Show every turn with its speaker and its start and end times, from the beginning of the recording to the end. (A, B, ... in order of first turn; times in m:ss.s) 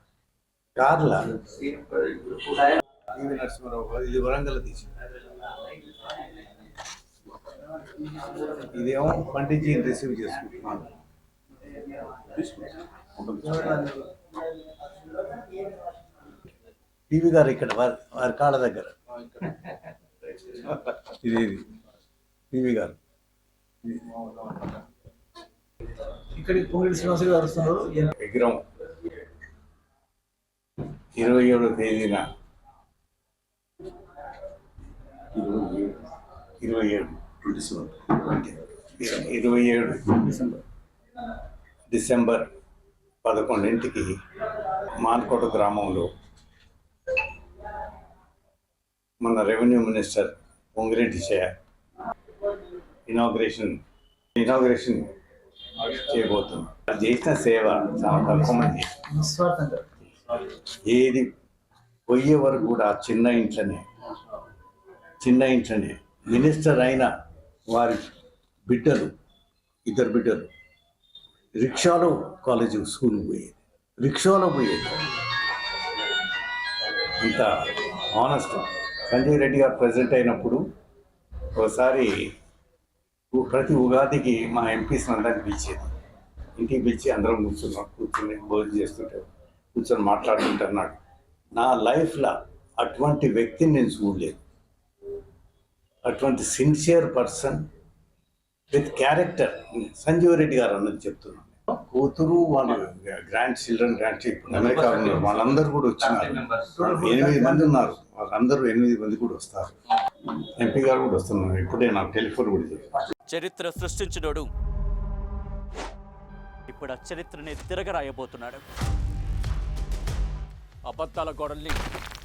0:00.8-0:04.9 A
0:08.3-0:10.9 A
0:12.3-0:14.0 A
0:17.1-0:19.0 A
0:20.4-0:21.7 A
0:22.5-0:23.0 A
0:23.9-0:24.4 A
0:26.3-0:28.1 B
0:28.1-0:28.6 A
0:31.1-0:32.3 A
0:35.3-0:36.0 A
0:36.6-0:40.6 A
0:41.9-0:42.5 A
0:43.2-0:44.2 A
0:44.7-0:46.1 A
0:49.2-0:51.5 A
0:53.0-0:53.8 A
0:54.3-0:55.1 A
0:55.8-0:59.1 A
0:59.1-0:59.9 B
1:00.8-1:01.3 A
1:02.1-1:03.8 A
1:05.2-1:07.1 A
1:07.7-1:08.0 A
1:08.6-1:09.1 A
1:09.8-1:10.5 A
1:11.6-1:15.0 A
1:17.0-1:20.6 A
1:21.5-1:22.3 A
1:23.3-1:25.9 A
1:26.6-1:31.0 A
1:31.5-1:34.4 A
1:36.0-1:37.6 A
1:38.7-1:49.7 A
1:44.5-1:45.6 C
1:46.2-1:46.7 C
1:46.8-1:47.8 B
1:50.3-1:53.0 A
1:53.3-1:54.5 C
1:56.7-1:58.6 C
2:00.9-2:01.8 C